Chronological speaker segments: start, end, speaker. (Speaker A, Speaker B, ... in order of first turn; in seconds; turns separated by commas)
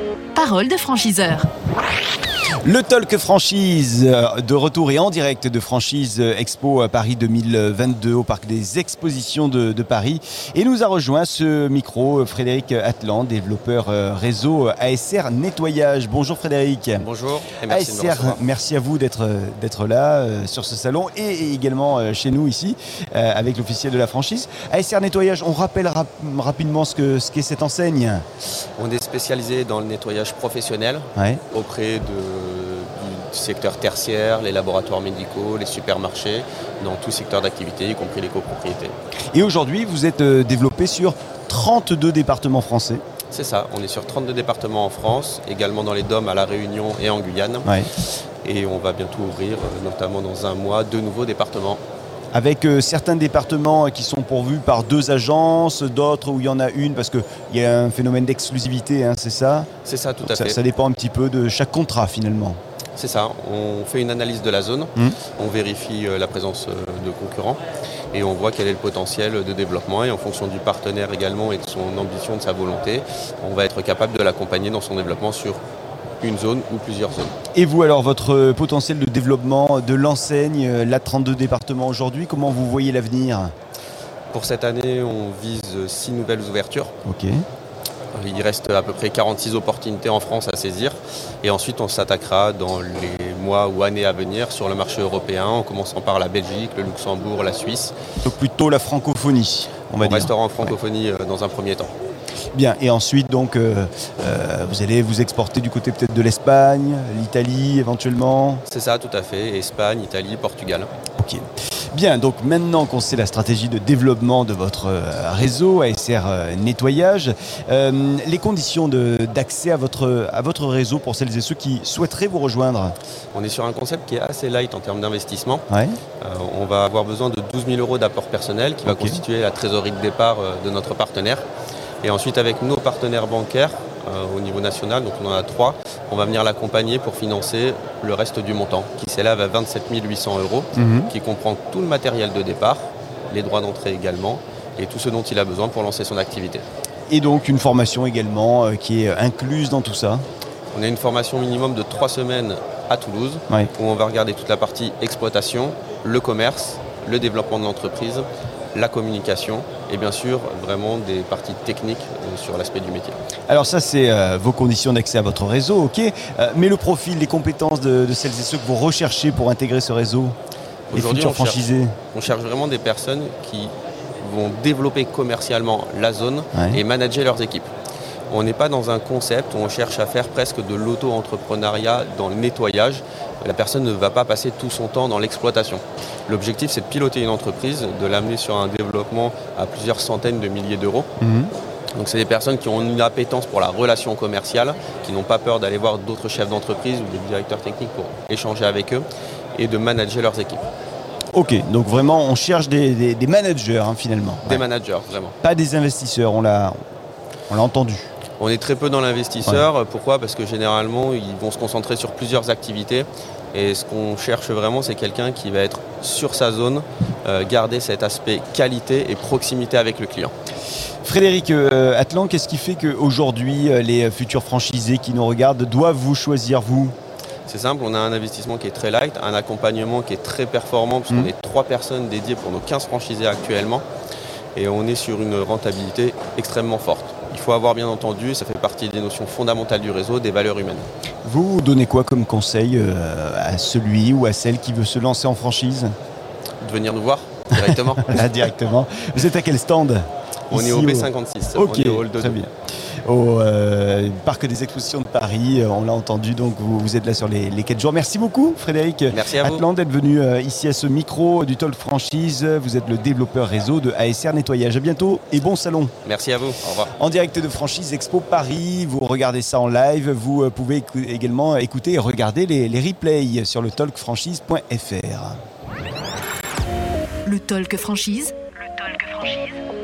Speaker A: 0.3-1.5, Speaker B: 2.6-17.0, Speaker C: 17.0-18.5, Speaker B: 17.7-28.2, Speaker C: 28.8-39.0, Speaker B: 31.2-31.4, Speaker B: 39.3-43.0, Speaker C: 43.3-47.8, Speaker B: 47.6-47.9, Speaker C: 48.4-51.8, Speaker B: 52.3-59.7, Speaker C: 59.8-60.6, Speaker B: 60.2-62.6, Speaker C: 63.0-75.6, Speaker C: 76.2-77.3, Speaker B: 77.5-83.5, Speaker C: 84.3-86.9, Speaker B: 87.0-87.4, Speaker C: 88.1-97.9, Speaker B: 98.2-100.7, Speaker C: 100.0-102.0, Speaker B: 102.5-108.6, Speaker C: 108.7-110.9, Speaker B: 111.2-123.0, Speaker C: 123.3-125.7, Speaker B: 125.7-126.0, Speaker C: 126.2-131.4, Speaker B: 128.9-129.2, Speaker C: 132.0-146.7, Speaker B: 140.8-141.1, Speaker B: 147.1-150.3, Speaker C: 150.7-163.2, Speaker B: 163.5-170.4, Speaker C: 170.9-177.7, Speaker B: 170.9-171.9, Speaker B: 176.5-176.8, Speaker C: 178.3-191.1, Speaker B: 191.2-191.5, Speaker C: 191.9-200.7, Speaker B: 201.3-204.7, Speaker C: 204.4-205.3, Speaker B: 205.4-206.8, Speaker B: 207.5-208.1, Speaker C: 208.4-220.3, Speaker B: 221.0-226.9, Speaker C: 227.5-233.8, Speaker C: 234.6-240.9, Speaker B: 241.2-245.9, Speaker C: 246.6-248.3, Speaker B: 247.6-252.5, Speaker C: 250.5-252.4, Speaker B: 253.1-265.9, Speaker C: 259.1-259.6, Speaker C: 266.0-266.9, Speaker B: 267.0-275.4, Speaker A: 277.2-279.6